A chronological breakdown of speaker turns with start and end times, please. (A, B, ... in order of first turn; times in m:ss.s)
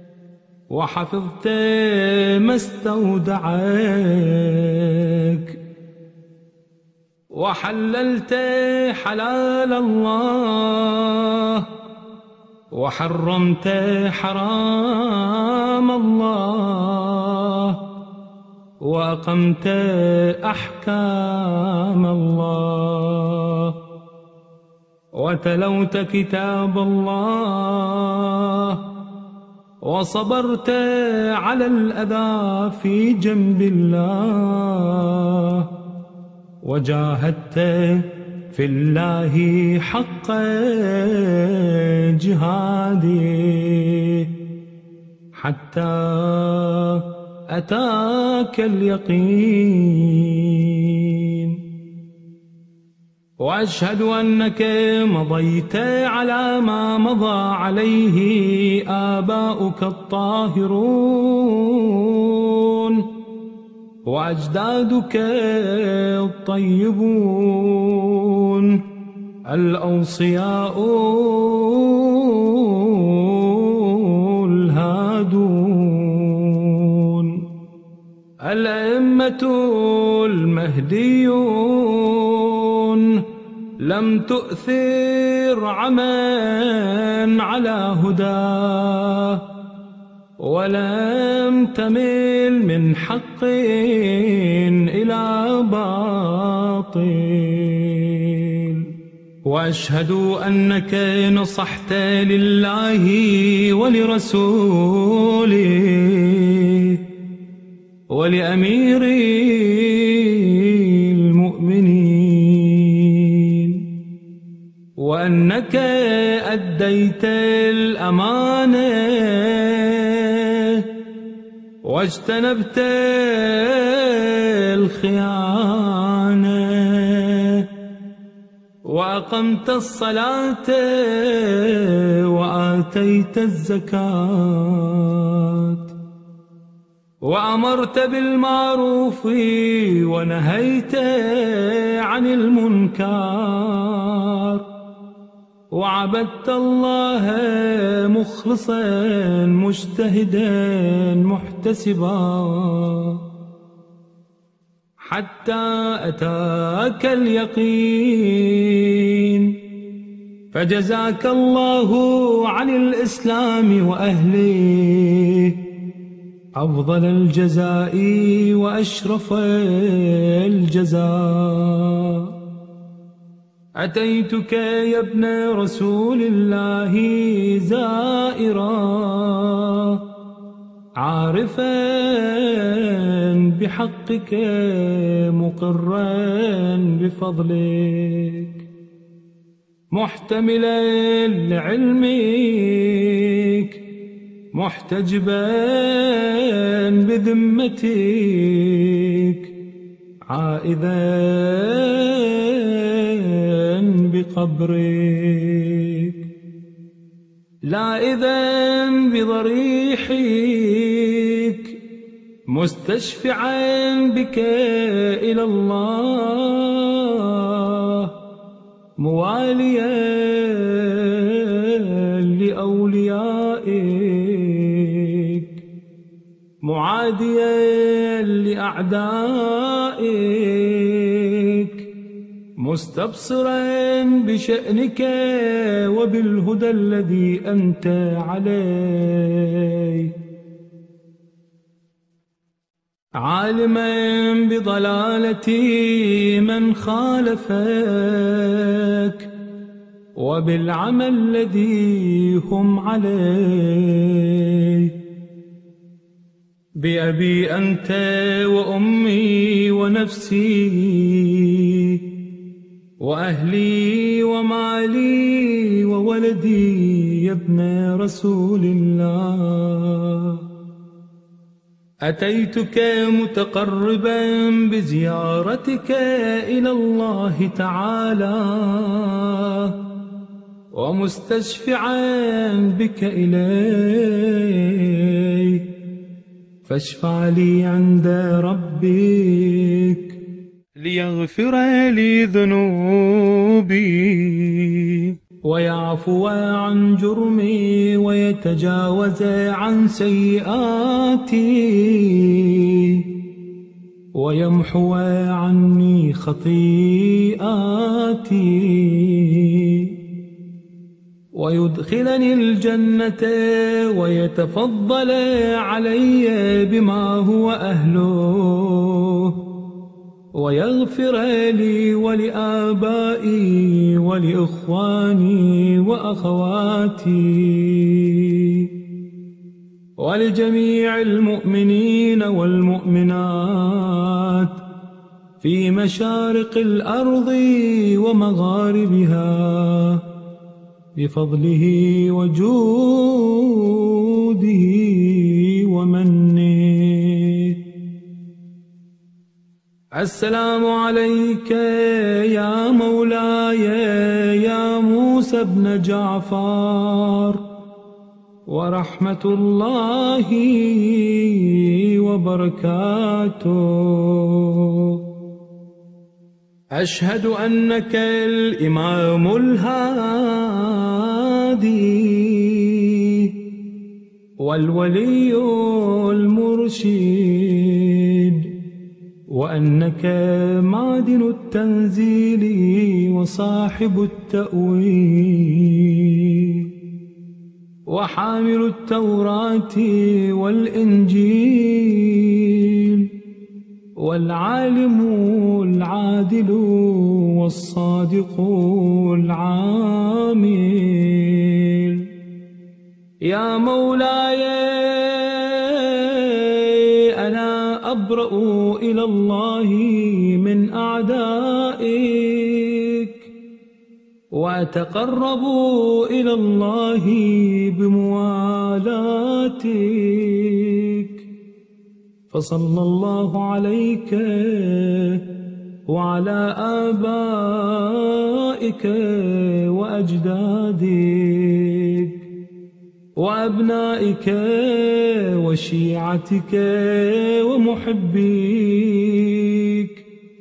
0:00.7-0:05.6 A
0:07.3-0:11.7 A
0:12.7-0:17.8 A
0:18.8-0:23.8 A
0:25.2-0:28.8 A
0:29.8-0:35.7 A
0:36.6-0:44.3 A
0:45.3-0:51.6 A
0:53.4-1:03.0 A
1:04.1-1:08.8 A
1:09.5-1:17.4 A
1:18.4-1:23.2 A
1:23.8-1:29.4 A
1:30.4-1:38.9 A
1:39.4-1:47.0 A
1:48.1-1:53.8 A
1:55.0-2:00.8 A
2:01.8-2:07.7 A
2:08.8-2:15.9 A
2:17.2-2:24.6 A
2:25.7-2:33.2 A
2:35.0-2:39.6 A
2:40.5-2:45.6 A
2:46.6-2:52.3 A
2:53.8-3:00.0 A
3:01.0-3:08.7 A
3:09.9-3:13.8 A
3:14.5-3:19.5 A
3:20.3-3:26.2 A
3:27.7-3:31.8 A
3:32.5-3:38.1 A
3:39.0-3:45.6 A
3:46.6-3:51.9 A
3:52.6-4:00.1 A
4:03.2-4:09.3 A
4:10.2-4:14.9 A
4:16.8-4:22.0 A
4:23.0-4:30.4 A
4:32.0-4:39.7 A
4:40.7-4:45.6 A
4:46.6-4:50.2 A
4:50.8-5:03.0 A
5:04.1-5:09.9 A
5:11.3-5:19.4 A
5:20.4-5:28.7 A
5:30.0-5:34.6 A
5:35.4-5:40.0 A
5:41.0-5:47.6 A
5:50.0-5:57.4 A
5:58.5-6:05.0 A
6:06.7-6:13.3 A
6:14.4-6:18.5 A
6:19.3-6:26.7 A
6:27.9-6:33.1 A
6:34.0-6:42.1 A
6:43.2-6:53.3 A
6:54.3-7:01.2 A
7:02.3-7:05.2 A
7:05.9-7:12.2 A
7:13.2-7:20.0 A